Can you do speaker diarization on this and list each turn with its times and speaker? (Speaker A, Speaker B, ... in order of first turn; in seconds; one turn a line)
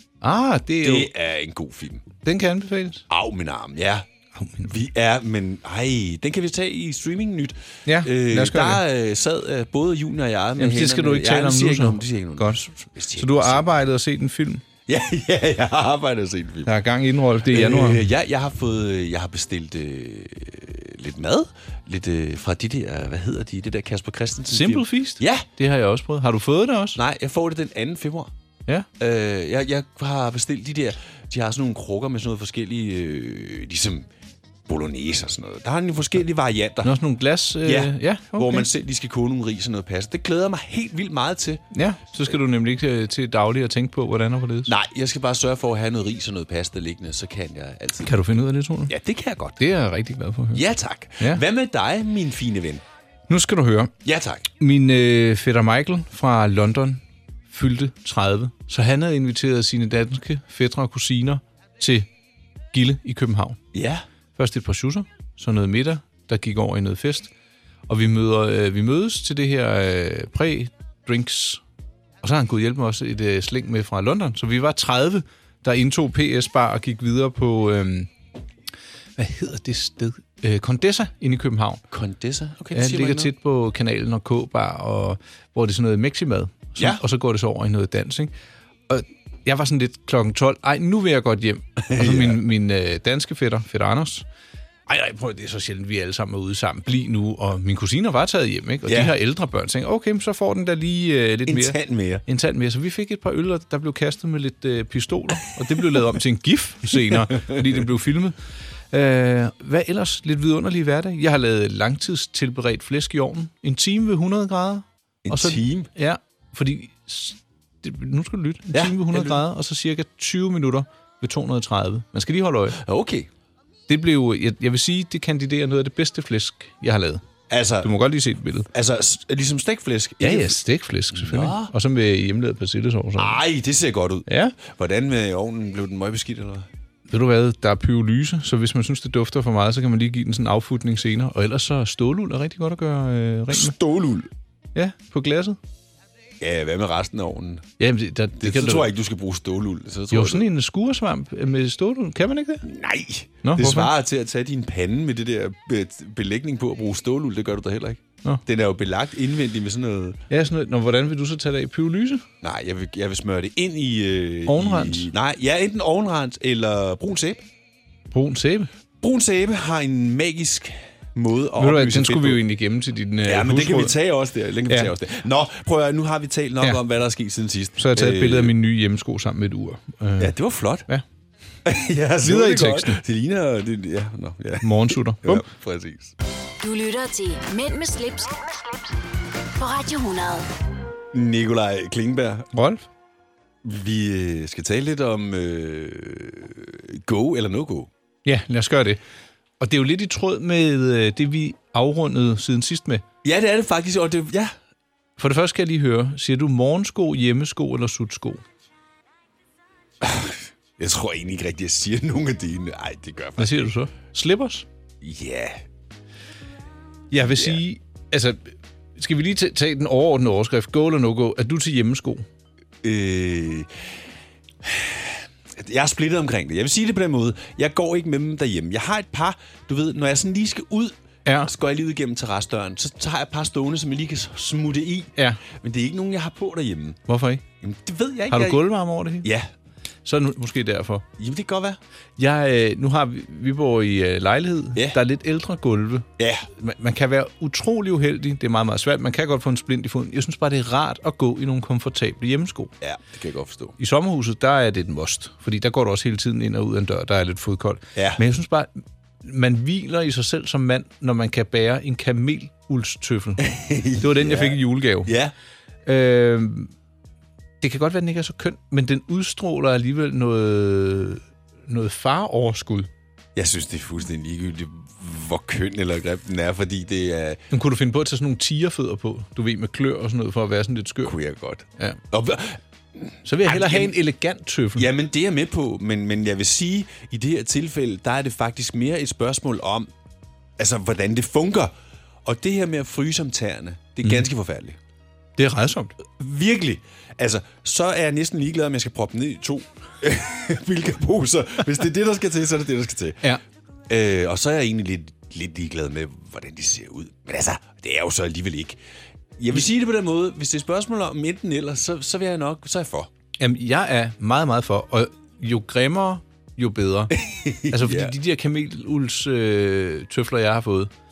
Speaker A: 0.2-1.1
Speaker B: 0.8-2.0
Speaker A: 2.2-3.1
Speaker B: 3.1-4.1
Speaker A: 4.4-4.7
Speaker B: 4.6-13.7
Speaker A: 7.9-8.8
Speaker A: 10.6-14.6
Speaker B: 14.9-16.7
Speaker A: 16.7-18.1
Speaker B: 17.5-25.5
Speaker A: 24.5-27.0
Speaker B: 27.0-28.3
Speaker B: 29.0-34.1
Speaker B: 34.7-37.0
Speaker A: 36.8-38.7
Speaker B: 37.6-41.6
Speaker A: 41.7-44.7
Speaker B: 44.7-48.2
Speaker A: 48.0-48.9
Speaker B: 48.9-49.6
Speaker A: 49.6-50.6
Speaker B: 50.5-52.8
Speaker A: 51.2-51.4
Speaker A: 53.3-53.9
Speaker B: 54.0-54.5
Speaker A: 54.6-62.1
Speaker A: 62.7-63.6
Speaker B: 63.7-64.0
Speaker A: 64.4-67.3
Speaker A: 67.9-71.6
Speaker A: 72.2-78.1
Speaker A: 79.2-81.8
Speaker B: 81.9-83.3
Speaker A: 82.7-88.3
Speaker B: 86.8-87.0
Speaker A: 88.9-94.3
Speaker B: 91.8-92.4
Speaker A: 94.9-108.4
Speaker B: 98.9-99.1
Speaker B: 101.5-102.2
Speaker B: 107.1-107.6
Speaker A: 108.9-122.8
Speaker B: 115.2-115.9
Speaker B: 118.7-119.4
Speaker B: 122.8-123.3
Speaker A: 123.9-127.2
Speaker B: 127.5-127.9
Speaker A: 127.8-128.7
Speaker B: 128.7-130.6
Speaker A: 130.2-133.4
Speaker B: 131.1-131.7
Speaker B: 133.2-136.7
Speaker A: 134.3-134.6
Speaker A: 137.1-143.8
Speaker B: 143.5-144.3
Speaker A: 144.8-145.6
Speaker B: 146.4-147.7
Speaker A: 147.8-148.9
Speaker B: 148.4-150.5
Speaker A: 150.1-152.7
Speaker B: 152.6-160.2
Speaker A: 153.4-153.9
Speaker A: 160.3-162.2
Speaker B: 162.4-167.4
Speaker A: 164.5-165.1
Speaker A: 168.1-168.7
Speaker B: 169.0-172.4
Speaker A: 171.6-174.0
Speaker B: 173.2-178.6
Speaker A: 177.8-180.3
Speaker B: 180.2-180.9
Speaker B: 181.7-186.2
Speaker A: 182.2-183.0
Speaker A: 184.6-185.5
Speaker C: 186.6-188.5
Speaker C: 189.6-190.5
Speaker B: 191.1-192.5
Speaker A: 192.5-192.9
Speaker B: 193.6-197.9
Speaker A: 198.2-199.0
Speaker A: 199.6-203.0
Speaker B: 203.2-204.5
Speaker A: 205.2-208.4
Speaker B: 210.0-213.7
Speaker A: 213.4-214.7
Speaker B: 215.0-215.6
Speaker A: 217.1-222.2
Speaker B: 217.3-217.6
Speaker B: 222.8-223.8
Speaker B: 224.6-237.0
Speaker A: 231.3-231.5
Speaker A: 237.1-237.4
Speaker B: 237.6-238.7
Speaker A: 238.3-239.3
Speaker B: 239.2-239.5
Speaker A: 240.1-241.1
Speaker B: 241.2-241.8
Speaker A: 242.2-252.7
Speaker B: 246.2-246.5
Speaker B: 252.8-253.8
Speaker A: 253.8-258.7
Speaker B: 257.9-258.2
Speaker A: 259.2-263.5
Speaker B: 263.4-265.3
Speaker A: 264.0-265.1
Speaker A: 265.9-266.7
Speaker A: 267.6-272.9
Speaker B: 273.4-277.4
Speaker A: 277.5-281.2
Speaker B: 281.1-283.9
Speaker A: 283.2-284.9
Speaker B: 284.8-289.9
Speaker B: 290.6-291.7
Speaker B: 292.2-294.8
Speaker A: 295.4-296.0
Speaker B: 296.1-303.2
Speaker B: 303.9-308.8
Speaker B: 309.4-313.1
Speaker A: 313.4-317.2
Speaker B: 317.1-318.1
Speaker A: 317.7-320.9